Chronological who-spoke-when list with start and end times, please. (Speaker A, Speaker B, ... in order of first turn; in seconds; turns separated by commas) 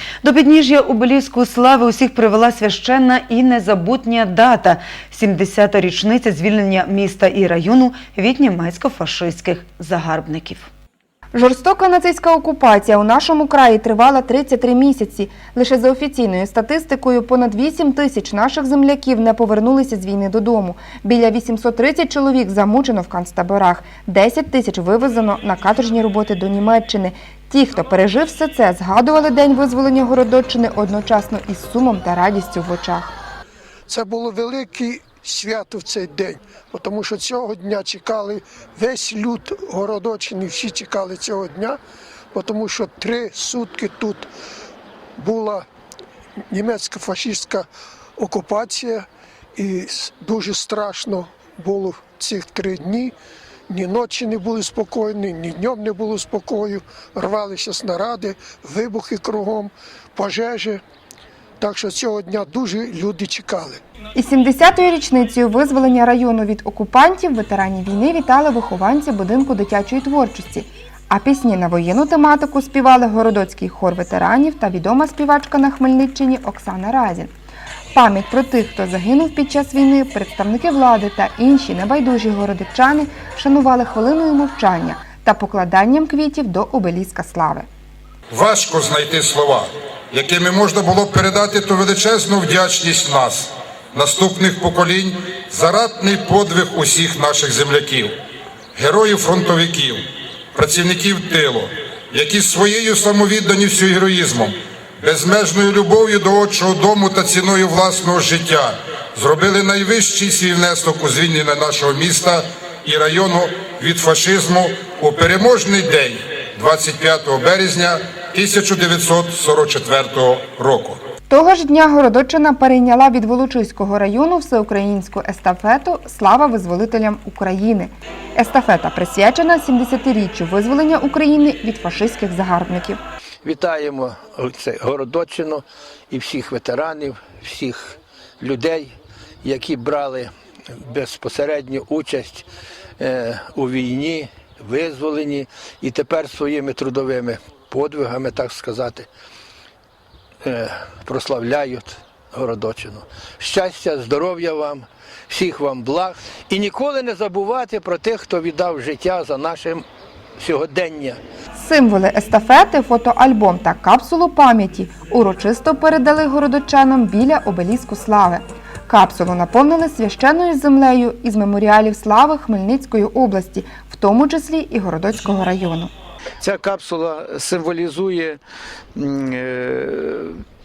Speaker A: 0.2-10.7, Speaker B: 11.3-33.1, Speaker C: 33.9-41.8, Speaker C: 42.3-44.3, Speaker C: 45.2-45.7, Speaker C: 46.5-53.1, Speaker C: 53.7-60.8, Speaker C: 61.6-63.8, Speaker B: 64.1-77.3, Speaker B: 77.9-87.7, Speaker D: 88.3-98.1, Speaker D: 98.7-100.0, Speaker D: 100.5-121.0, Speaker B: 121.3-133.0, Speaker E: 133.4-142.4, Speaker E: 143.0-149.1, Speaker E: 150.4-159.8, Speaker E: 160.4-161.2, Speaker B: 161.5-175.9, Speaker F: 176.4-178.4, Speaker F: 178.9-180.4